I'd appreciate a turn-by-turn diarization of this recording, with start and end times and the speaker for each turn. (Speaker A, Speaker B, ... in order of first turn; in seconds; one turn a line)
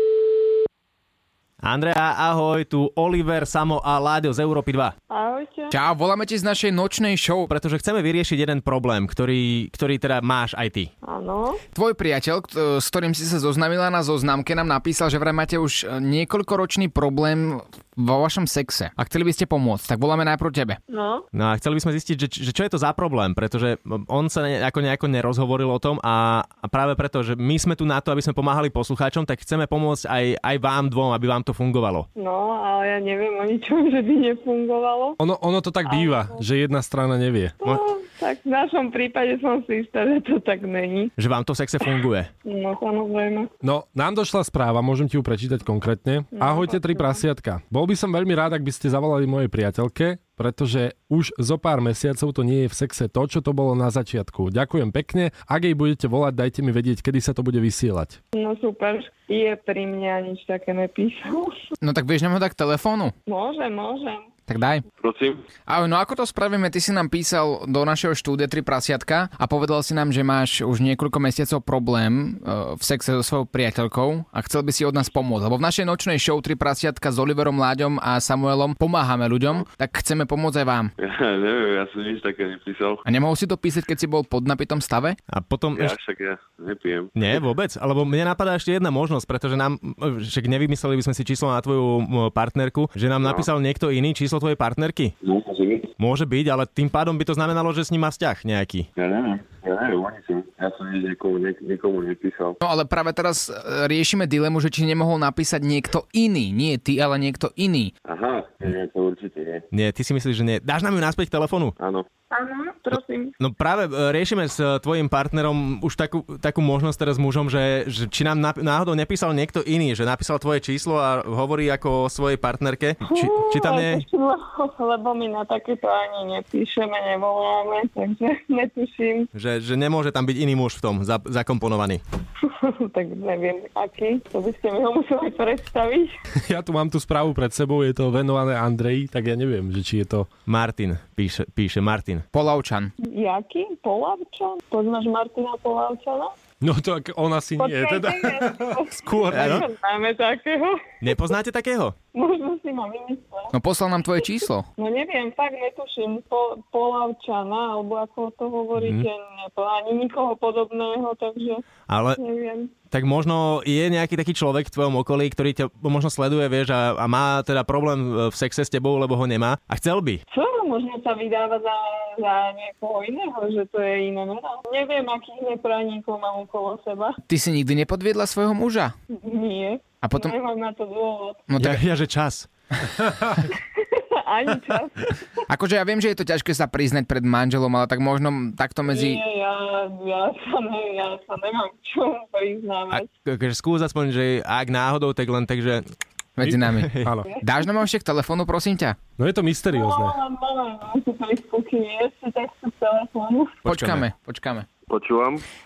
Speaker A: 1.6-4.9
Speaker B: 5.1-5.7
Speaker C: 5.7-7.5
Speaker A: 7.5-10.9
Speaker B: 11.0-11.6
Speaker C: 11.7-20.8
Speaker B: 20.9-21.2
Speaker A: 21.3-32.1
Speaker B: 32.1-35.2
Speaker D: 35.2-37.5
Speaker B: 35.9-36.4
Speaker B: 37.6-41.1
Speaker A: 41.2-42.3
Speaker B: 42.4-43.5
Speaker D: 43.6-58.2
Speaker B: 46.3-47.2
Speaker B: 58.3-61.5
Speaker C: 61.8-63.1
Speaker B: 63.3-64.3
Speaker C: 64.5-64.8
Speaker E: 65.0-65.4
Speaker C: 65.7-80.9
Speaker E: 81.0-83.0
Speaker C: 83.0-85.2
Speaker A: 85.3-85.9
Speaker E: 85.7-87.4
Speaker A: 87.1-95.1
Speaker E: 93.2-93.5
Speaker E: 95.2-95.9
Speaker A: 96.0-98.9
Speaker E: 99.0-102.6
Speaker C: 102.6-107.9
Speaker E: 108.0-109.6
Speaker A: 109.7-111.8
Speaker E: 111.8-112.1
Speaker B: 112.3-113.3
Speaker A: 113.4-124.0
Speaker B: 123.0-129.3
Speaker A: 129.3-132.0
Speaker B: 132.5-136.1
Speaker D: 136.4-140.3
Speaker A: 140.5-142.2
Speaker C: 142.3-142.9
Speaker B: 143.1-146.3
Speaker D: 146.6-149.7
Speaker B: 147.6-151.1
Speaker A: 149.3-149.7
Speaker A: 151.0-151.9
Speaker B: 152.1-153.5
Speaker C: 153.5-154.7
Speaker B: 154.8-161.6
Speaker A: 158.8-159.1
Speaker A: 161.9-162.2
Speaker B: 162.2-162.7
Speaker A: 162.9-170.2
Speaker B: 170.3-177.2
Speaker C: 177.2-178.9
Speaker B: 179.1-181.4
Speaker C: 180.0-180.3
Speaker C: 181.5-181.8
Speaker A: 181.6-182.5
Speaker B: 183.8-185.2
Speaker C: 185.5-189.2
Speaker B: 188.9-193.1
Speaker A: 192.9-195.9
Speaker C: 196.4-199.0
Speaker D: 196.4-197.3
Speaker A: 196.8-197.1
Speaker D: 199.2-200.2
Speaker B: 199.7-203.6
Speaker C: 203.6-204.7
Speaker D: 203.7-204.0
Speaker E: 204.9-205.4